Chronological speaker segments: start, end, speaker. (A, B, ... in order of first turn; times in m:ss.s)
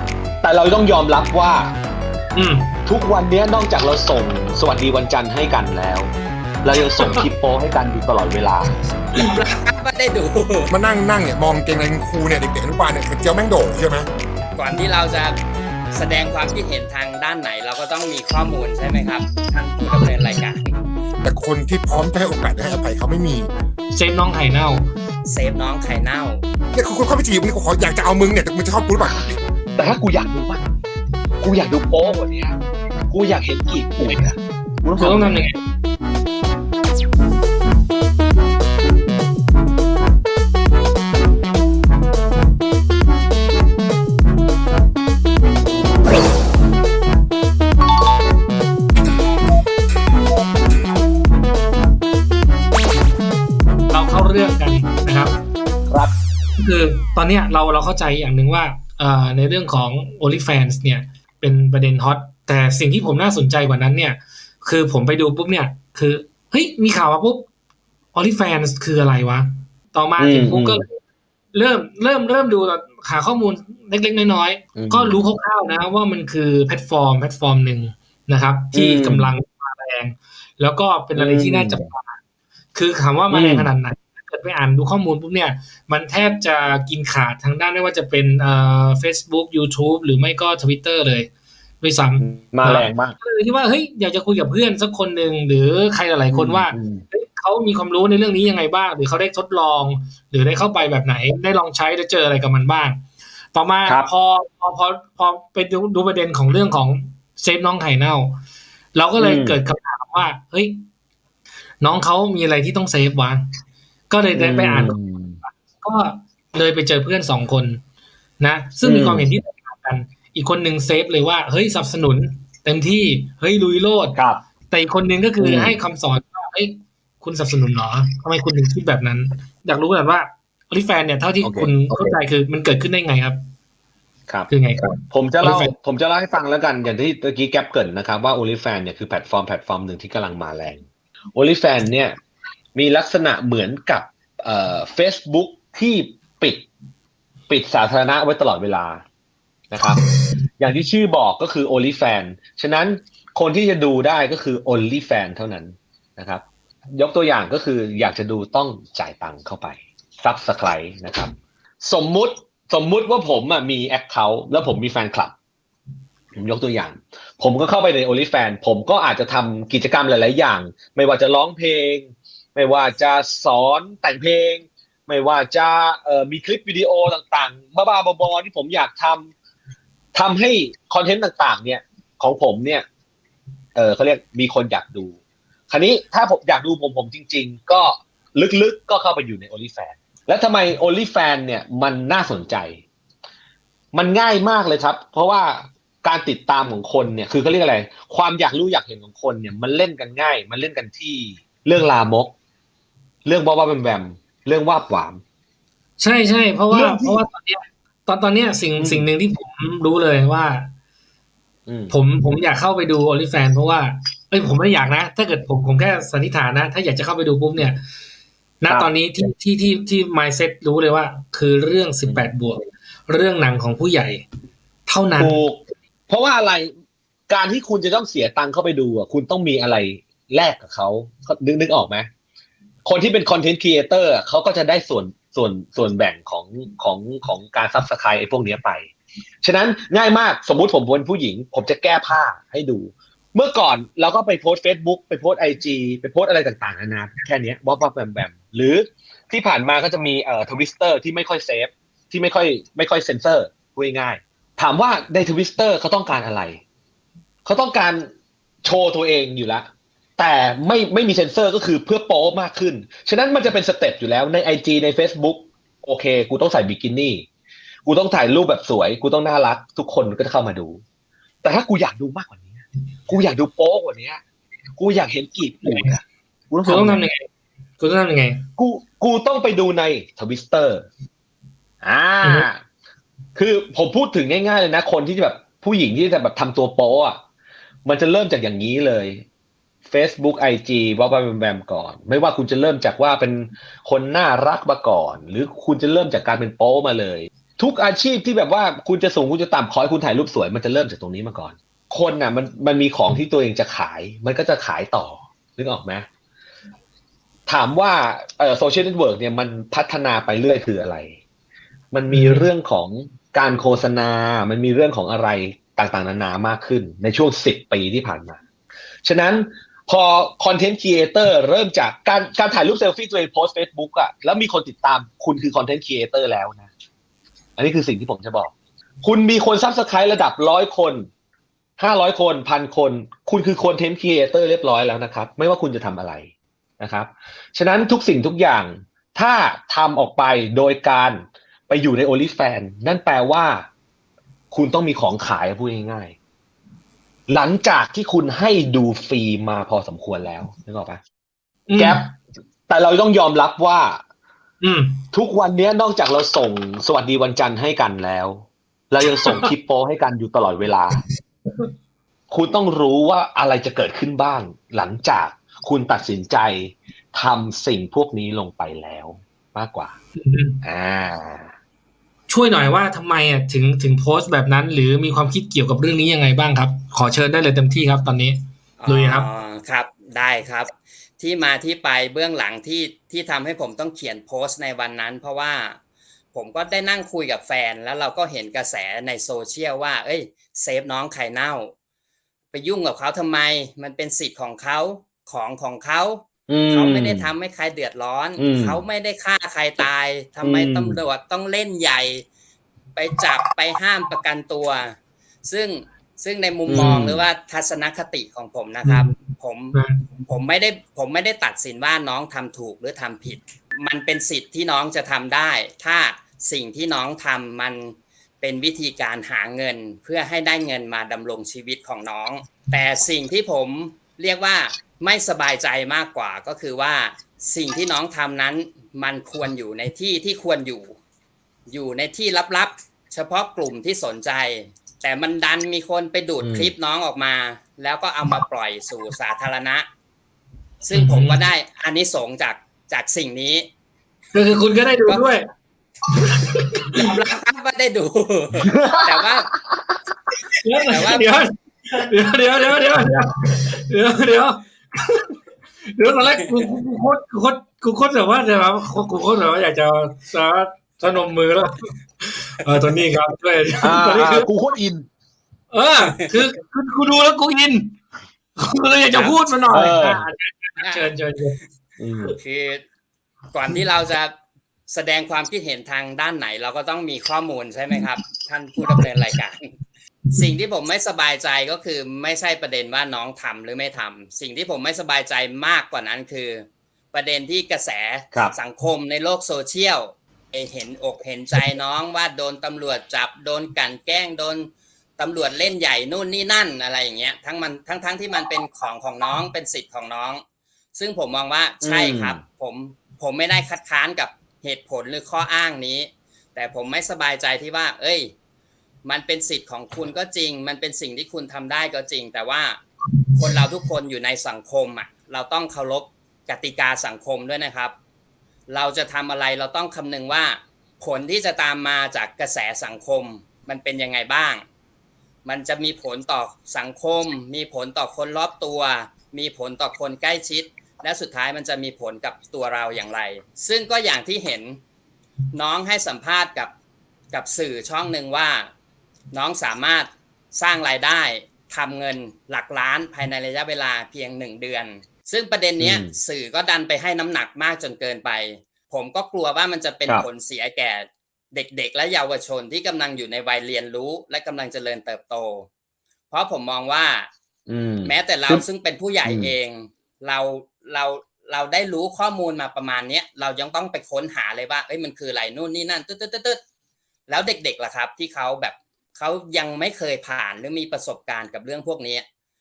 0:00.4-0:01.7 A
0:02.4-0:02.7 B
0:02.9-0:08.8 A
0:09.2-0:10.7 C
0:10.7-0:14.1 D
0:14.5-0:15.4 C
0:15.9-0:20.7 C
0:21.2-0:23.5 D
0:23.9-0:24.9 B
0:25.2-0:26.4 C
0:26.7-0:29.4 D
0:29.8-0:30.8 A
0:31.4-0:32.6 A
0:33.1-0:35.5 A
0:35.0-0:35.6 B
0:53.9-0:55.4 B
0:56.6-1:07.5 B
1:08.1-1:11.0 B
1:10.2-1:10.8 A
1:11.5-1:22.2 B
1:14.8-1:15.2 A
1:18.7-1:19.3 A
1:21.2-1:21.9 A
1:22.7-1:31.3 B
1:23.3-1:23.7 A
1:31.8-1:48.4 B
1:32.2-1:33.2 A
1:36.3-1:37.0 A
1:43.8-1:44.1 A
1:48.9-1:50.8 B
1:49.2-1:49.6 A
1:51.8-1:53.5 B
1:54.1-1:57.8 B
1:54.4-1:55.4 A
1:58.4-2:04.2 B
1:58.8-1:59.3 A
2:04.2-2:04.5 A
2:04.7-2:13.4 B
2:05.4-2:05.8 A
2:11.4-2:12.2 A
2:14.3-2:22.2 A
2:14.5-2:15.7 B
2:22.8-2:26.7 A
2:27.5-2:29.0 A
2:29.7-2:30.0 A
2:30.6-2:45.3 A
2:46.3-2:59.3 A
3:00.1-3:02.9 A
3:03.8-3:05.2 A
3:05.7-3:12.8 A
3:13.9-3:22.4 A
3:23.2-3:25.2 A
3:26.0-3:30.7 B
3:26.7-3:27.2 A
3:28.8-3:29.1 A
3:31.7-3:32.0 A
3:31.9-3:37.8 B
3:38.6-3:44.2 B
3:38.7-3:39.0 A
3:42.0-3:42.3 A
3:44.9-3:45.4 B
3:45.2-3:46.7 A
3:47.3-3:52.1 A
3:52.8-3:58.9 A
3:59.4-4:16.6 A
4:17.4-4:18.1 A
4:18.6-4:27.3 A
4:27.8-4:30.8 A
4:31.4-4:34.2 A
4:34.8-4:37.0 A
4:36.6-4:37.3 B
4:37.8-4:38.4 B
4:38.6-4:40.9 A
4:41.8-4:42.6 A
4:43.4-4:47.2 A
4:47.9-4:49.2 A
4:49.8-5:06.1 A
5:07.5-5:11.2 A
5:11.9-5:18.4 A
5:12.1-5:12.5 B
5:19.0-5:26.7 A
5:27.6-5:28.5 A
5:29.0-5:31.1 A
5:31.8-5:43.7 A
5:44.5-5:46.2 A
5:47.3-5:51.0 A
5:51.7-5:52.1 B
5:51.7-5:52.2 A
5:52.7-5:54.0 A
5:54.6-5:55.0 B
5:55.1-6:01.0 A
5:59.2-5:59.5 B
6:02.3-6:10.0 A
6:10.2-6:10.6 B
6:10.6-6:11.5 A
6:12.3-6:19.3 B
6:18.8-6:25.8 C
6:26.3-6:31.7 C
6:32.5-6:42.3 C
6:36.5-6:37.3 A
6:38.4-6:38.8 A
6:40.4-6:41.0 A
6:43.0-7:11.0 C
6:46.7-6:47.3 A
6:48.8-6:49.2 B
6:49.7-6:50.0 B
7:11.7-7:19.9 C
7:16.4-7:16.7 A
7:20.8-7:23.7 C
7:20.9-7:21.4 B
7:24.3-7:25.4 B
7:25.0-7:25.3 C
7:26.3-7:27.0 B
7:26.9-7:29.5 C
7:28.7-7:29.9 A
7:30.6-7:35.3 B
7:30.9-7:31.3 C
7:35.9-7:44.5 B
7:36.3-7:36.7 C
7:43.8-7:45.1 A
7:45.7-7:48.0 B
7:46.0-7:46.3 C
7:48.6-7:51.6 B
7:49.1-7:49.6 C
7:49.7-7:50.3 A
7:50.8-7:51.1 C
7:52.0-7:52.4 A
7:52.4-7:52.8 C
7:53.5-7:54.3 C
7:54.9-7:59.6 C
8:00.3-8:20.4 C
8:20.9-8:28.3 C
8:21.8-8:22.4 A
8:29.0-8:32.8 C
8:33.4-8:38.0 C
8:38.7-8:44.7 C
8:45.4-8:54.8 C
8:55.5-8:56.7 C
8:57.3-8:58.7 C
8:59.3-9:15.7 C
9:05.8-9:06.2 A
9:16.3-9:17.3 C
9:17.7-9:18.6 A
9:18.0-9:26.6 C
9:19.2-9:19.5 A
9:27.3-9:32.3 C